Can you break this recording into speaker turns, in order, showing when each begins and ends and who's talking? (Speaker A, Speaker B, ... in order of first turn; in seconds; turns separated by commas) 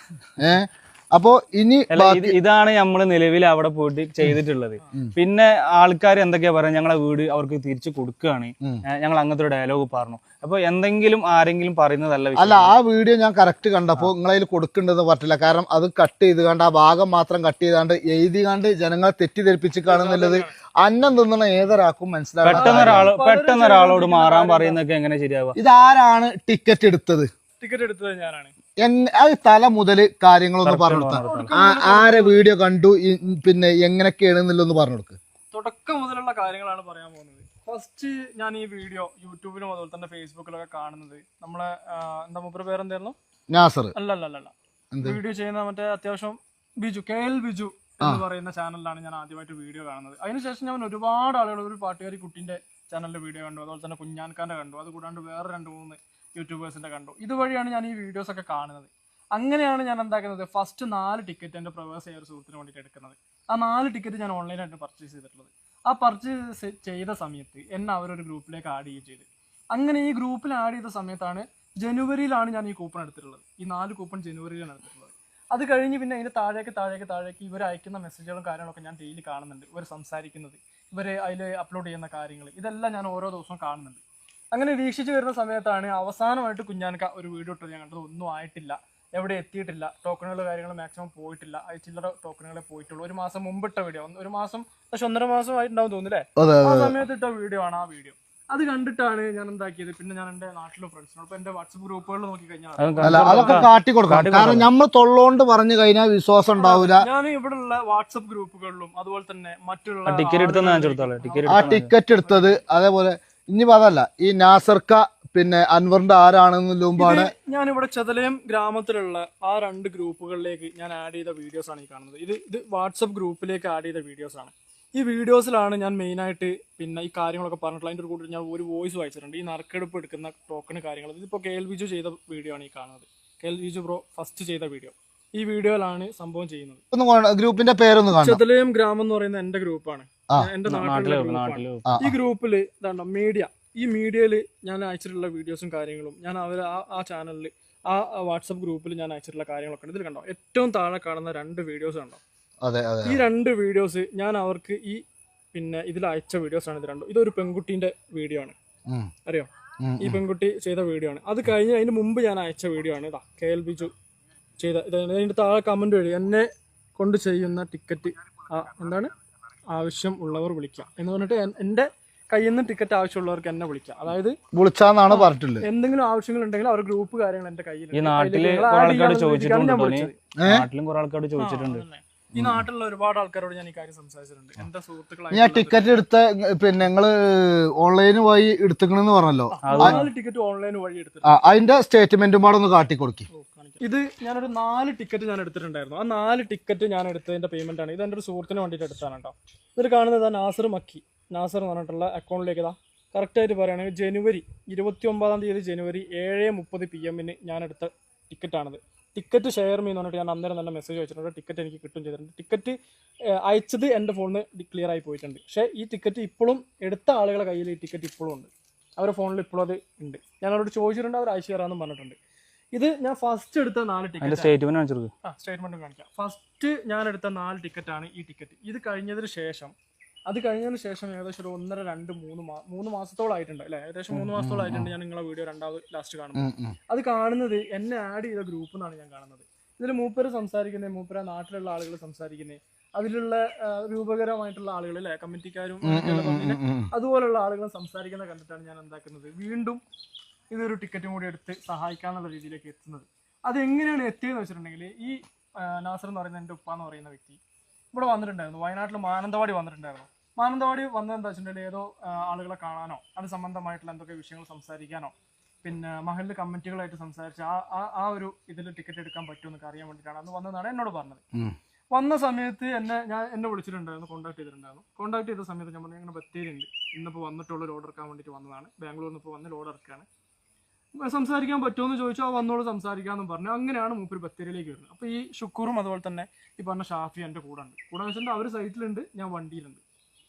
Speaker A: 0.4-2.4, Speaker B: 1.9-12.7, Speaker A: 12.4-23.1, Speaker C: 19.9-20.5, Speaker B: 22.4-25.6, Speaker C: 22.5-24.8, Speaker A: 25.6-27.3, Speaker C: 27.6-28.5, Speaker A: 28.8-35.2, Speaker B: 30.6-31.5, Speaker C: 31.2-32.4, Speaker C: 35.5-43.2, Speaker A: 43.5-44.0, Speaker C: 44.0-84.0, Speaker A: 44.9-45.2, Speaker C: 84.5-103.7, Speaker A: 96.4-97.0, Speaker B: 102.8-104.7, Speaker A: 103.0-107.1, Speaker C: 106.6-112.6, Speaker B: 110.1-111.9, Speaker A: 111.5-117.3, Speaker C: 117.0-136.8, Speaker A: 136.9-138.4, Speaker C: 138.2-152.2, Speaker B: 140.7-142.0, Speaker A: 141.8-142.2, Speaker A: 152.6-153.2, Speaker C: 153.1-155.0, Speaker C: 155.5-158.6, Speaker A: 159.8-160.2, Speaker C: 160.0-163.9, Speaker C: 164.6-169.1, Speaker C: 169.7-174.4, Speaker A: 174.5-175.7, Speaker C: 175.1-180.2, Speaker B: 177.9-181.8, Speaker A: 180.4-180.7, Speaker C: 181.4-186.0, Speaker A: 182.3-182.6, Speaker A: 185.3-190.0, Speaker C: 189.6-191.4, Speaker B: 189.6-190.1, Speaker A: 191.2-193.3, Speaker C: 193.3-212.8, Speaker C: 213.4-222.2, Speaker C: 222.7-224.5, Speaker B: 224.2-225.1, Speaker C: 225.2-229.7, Speaker C: 230.3-249.8, Speaker A: 234.1-234.9, Speaker A: 236.4-236.8, Speaker A: 245.8-246.9, Speaker C: 250.5-257.4, Speaker C: 257.9-271.2, Speaker C: 271.9-280.1, Speaker C: 280.9-289.8